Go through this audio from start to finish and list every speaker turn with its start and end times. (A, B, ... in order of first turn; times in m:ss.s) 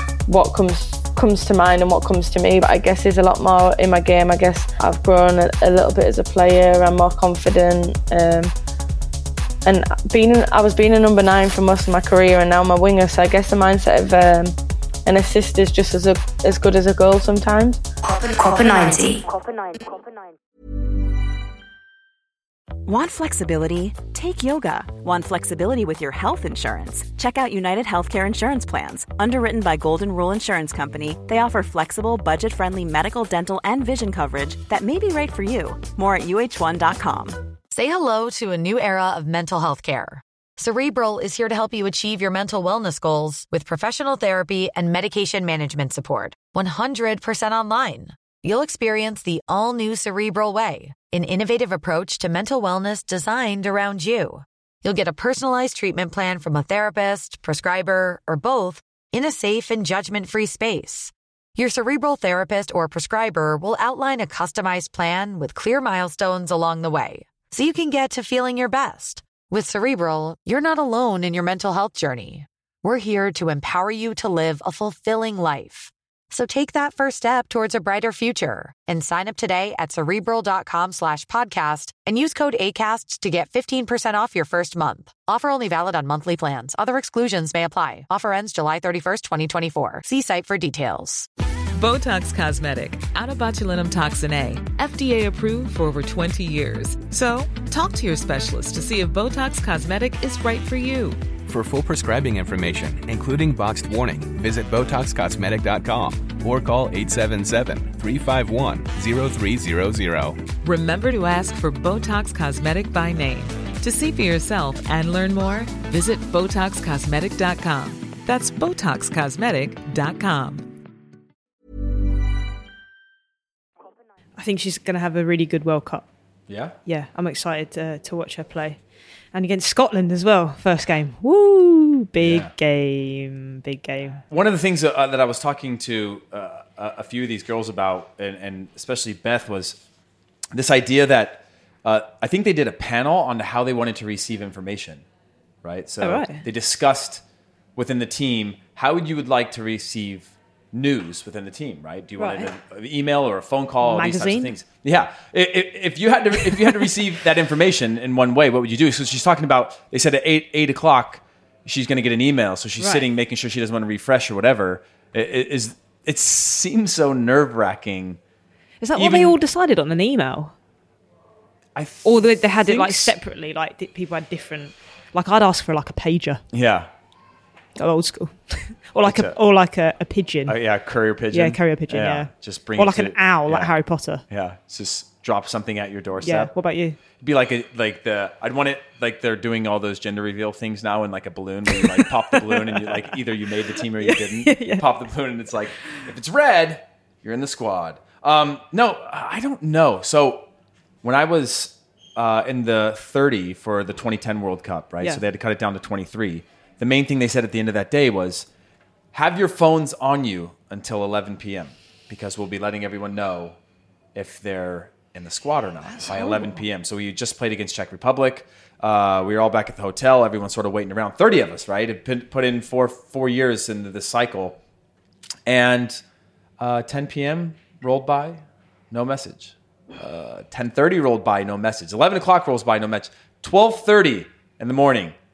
0:00.3-0:08.5 A
0:09.6-0:14.5 A
0:15.1-0:17.8 A
0:18.0-0:20.0 B
0:22.9-0:37.4 C
0:37.7-1:31.3 D
1:31.8-1:41.2 E
1:41.4-1:50.4 F
1:50.6-2:00.7 E
2:04.4-2:06.1 G
2:06.5-2:06.8 H
2:06.9-2:08.8 G
2:09.3-2:14.2 G
2:12.2-2:12.5 H
2:14.3-2:19.8 H
2:20.5-2:25.0 H
2:25.6-2:27.2 H
2:26.0-2:26.4 G
2:27.8-2:48.2 H
2:32.2-2:32.5 G
2:33.8-2:34.5 G
2:42.8-2:43.1 G
2:48.8-2:50.5 G
2:49.0-2:49.4 H
2:51.8-2:53.2 H
2:52.0-2:56.4 G
2:56.5-2:56.9 H
2:57.8-3:00.6 G
2:59.0-2:59.4 H
3:00.5-3:03.7 H
3:01.3-3:04.2 G
3:04.3-3:06.5 H
3:06.2-3:07.0 G
3:07.2-3:20.5 H
3:11.7-3:13.1 G
3:14.0-3:14.8 G
3:21.0-3:28.5 H
3:29.1-3:33.6 H
3:34.2-3:44.6 H
3:35.9-3:36.6 G
3:45.5-3:46.0 H
3:46.6-3:55.2 H